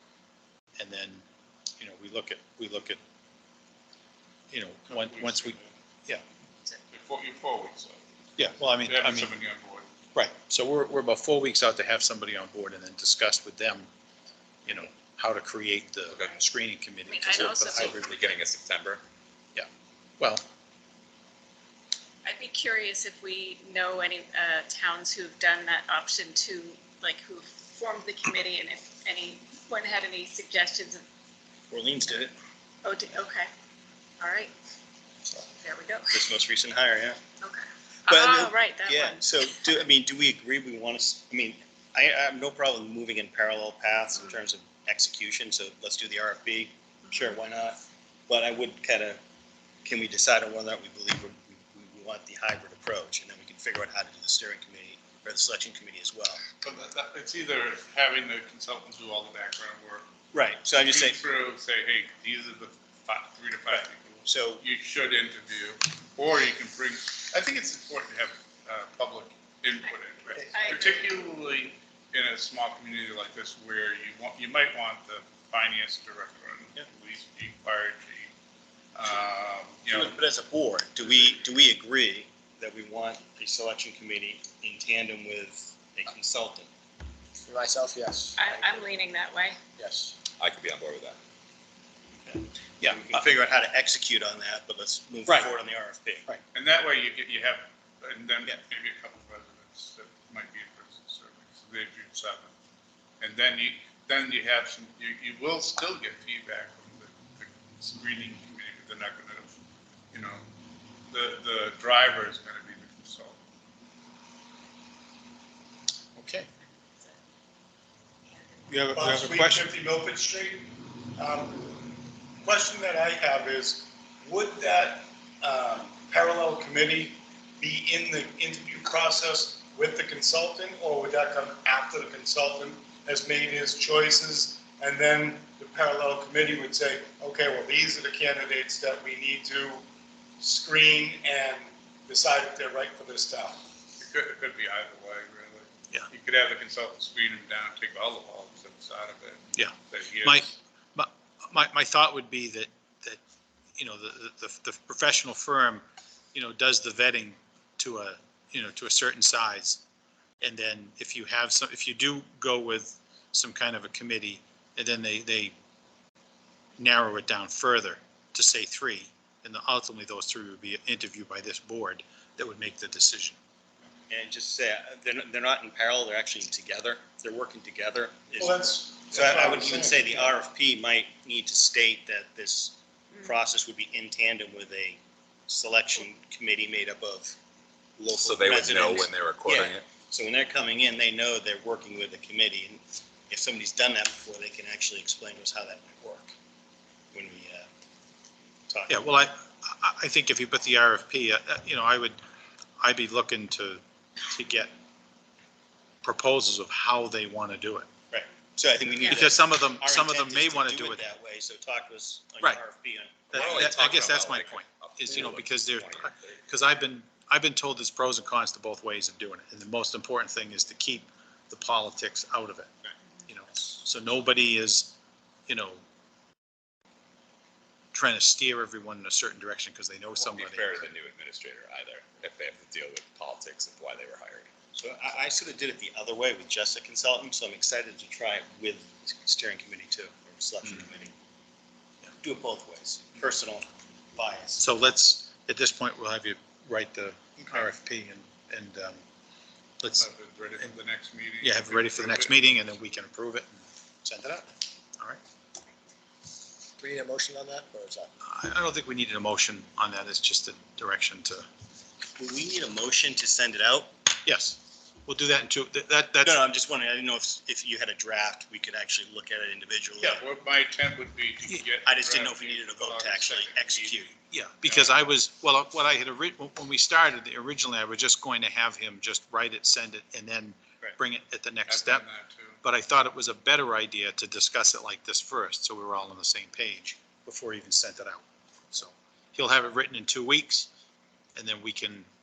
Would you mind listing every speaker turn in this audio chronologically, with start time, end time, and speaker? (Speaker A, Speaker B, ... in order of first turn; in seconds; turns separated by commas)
Speaker A: 0.8-1.2, Speaker A: 1.8-3.0, Speaker A: 4.5-6.2, Speaker B: 4.9-5.7, Speaker B: 6.9-8.0, Speaker A: 8.4-9.3, Speaker B: 8.8-9.9, Speaker A: 10.1-13.9, Speaker A: 14.7-18.0, Speaker C: 17.1-18.0, Speaker D: 17.3-19.0, Speaker C: 22.2-31.0, Speaker E: 31.7-32.3, Speaker C: 32.8-33.5, Speaker C: 34.2-34.5, Speaker C: 35.6-36.3, Speaker E: 36.1-37.2, Speaker C: 37.4-39.6, Speaker E: 38.1-49.2, Speaker E: 49.8-56.4, Speaker B: 56.6-60.1, Speaker E: 60.3-61.2, Speaker B: 60.8-78.3, Speaker E: 63.7-64.6, Speaker C: 70.3-71.2, Speaker B: 78.9-80.2, Speaker E: 79.9-86.7, Speaker F: 87.5-88.3, Speaker C: 88.4-89.6, Speaker F: 89.8-90.1, Speaker D: 90.4-91.2, Speaker E: 92.3-96.3, Speaker A: 92.8-93.1, Speaker B: 96.5-102.5, Speaker B: 103.2-109.5, Speaker B: 110.1-110.4, Speaker B: 111.1-113.4, Speaker A: 116.2-116.5, Speaker C: 118.3-118.6, Speaker A: 118.7-119.7, Speaker G: 118.9-121.9, Speaker G: 122.4-139.8, Speaker G: 140.4-143.6, Speaker B: 144.0-150.5, Speaker A: 149.5-153.2, Speaker A: 153.8-155.8, Speaker A: 156.3-159.8, Speaker A: 160.4-165.5, Speaker A: 166.8-173.3, Speaker E: 174.1-187.3, Speaker G: 178.4-180.2, Speaker E: 188.0-196.3, Speaker D: 188.1-189.8, Speaker E: 197.1-197.7, Speaker E: 198.7-199.1, Speaker A: 198.9-202.2, Speaker A: 202.8-204.7, Speaker A: 206.0-207.9, Speaker E: 208.1-213.8, Speaker A: 209.0-211.0, Speaker A: 213.3-222.7, Speaker D: 213.3-216.4, Speaker A: 223.3-224.9, Speaker A: 225.5-225.8, Speaker A: 227.9-230.8, Speaker D: 230.2-234.5, Speaker E: 234.7-241.1, Speaker E: 242.2-244.6, Speaker A: 244.6-249.0, Speaker A: 249.8-250.1, Speaker B: 250.0-252.5, Speaker A: 251.4-254.5, Speaker F: 256.8-258.1, Speaker A: 258.2-261.5, Speaker E: 262.2-263.9, Speaker A: 264.2-266.4, Speaker E: 266.2-270.2, Speaker B: 270.0-274.1, Speaker E: 271.8-274.1, Speaker A: 274.3-282.1, Speaker B: 274.6-275.0, Speaker B: 281.7-282.6, Speaker A: 282.6-290.7, Speaker A: 291.4-292.1